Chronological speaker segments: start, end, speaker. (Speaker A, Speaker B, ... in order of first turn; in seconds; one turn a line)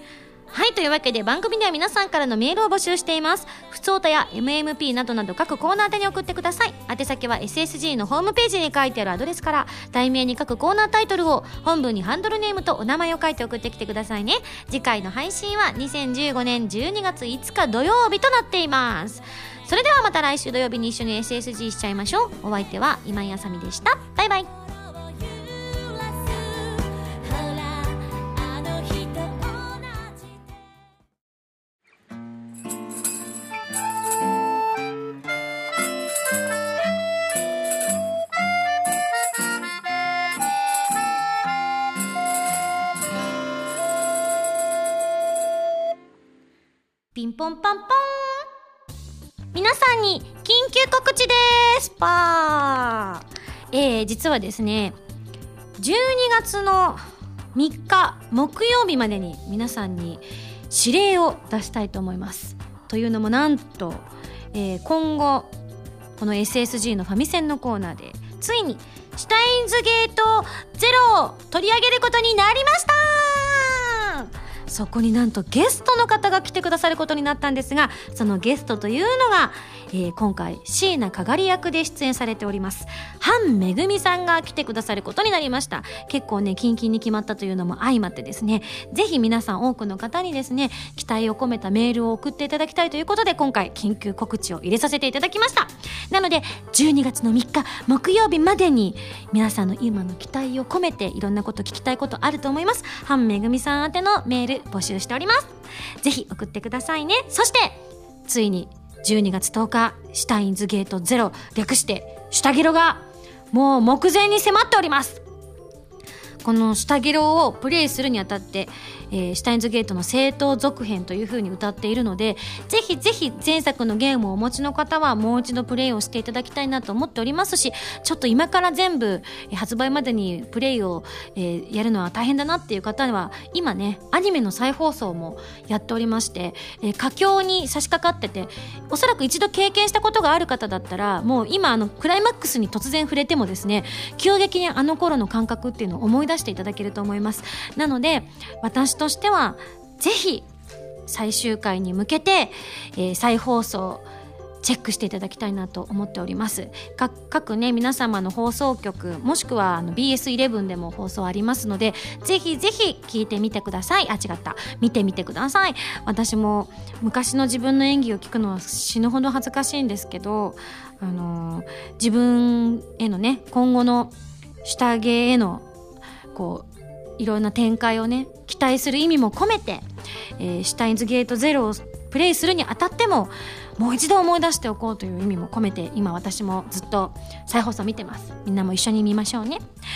Speaker A: 0.5-24.5
Speaker A: 25.7-30.1
Speaker A: 47.1-48.5
Speaker A: 49.5-55.0
Speaker A: 55.8-57.0
Speaker A: 57.5-65.5
Speaker A: 66.2-115.2
Speaker A: 116.4-150.5
Speaker A: 151.1-154.1
Speaker A: 154.6-175.7
Speaker A: 176.3-179.8
Speaker A: 180.4-189.6